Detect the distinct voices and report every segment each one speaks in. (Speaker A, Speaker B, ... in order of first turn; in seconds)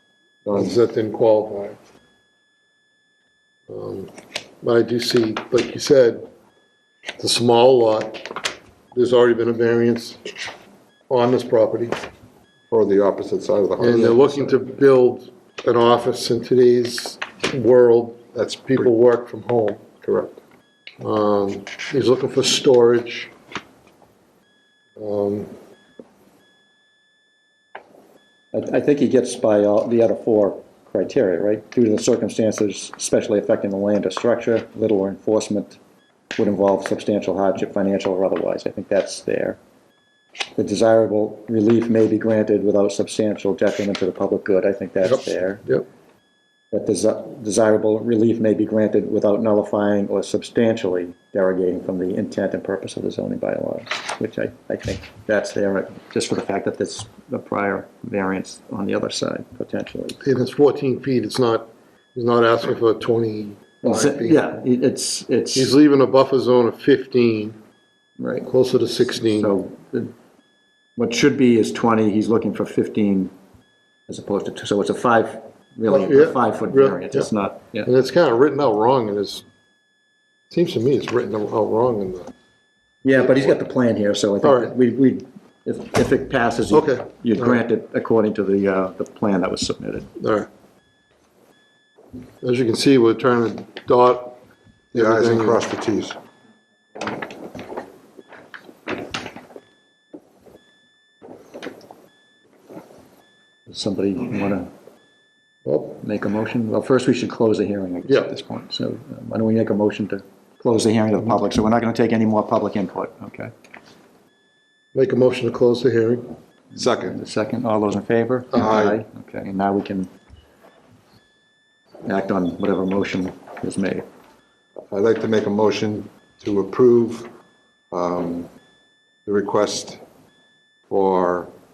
Speaker A: 0.5-1.8, 3.7-6.3, 7.2-10.4, 11.1-11.9, 13.8-19.8, 21.0-23.3, 25.0-25.6, 60.2-64.4, 65.5-67.6, 68.5-69.5, 75.9-77.3, 77.8-79.5, 80.5-82.3, 84.4-84.7, 86.7-87.6, 90.2-90.5, 92.4-94.4, 94.9-95.7, 105.7-106.0, 114.9-116.3
Speaker B: 12.7-14.7, 18.3-18.9, 20.0-20.4, 94.9-96.2, 116.8-117.2, 118.6-119.0, 124.9-127.3, 127.9-128.5, 129.3-130.0, 130.9-131.5
Speaker C: 28.5-35.8, 36.4-39.6, 40.6-45.7, 46.7-60.2, 63.8-65.8, 68.2-68.5, 69.4-70.1, 71.0-73.3, 74.1-77.9, 83.0-90.1, 103.7-104.7, 105.9-113.5, 116.7-120.1, 122.0-124.0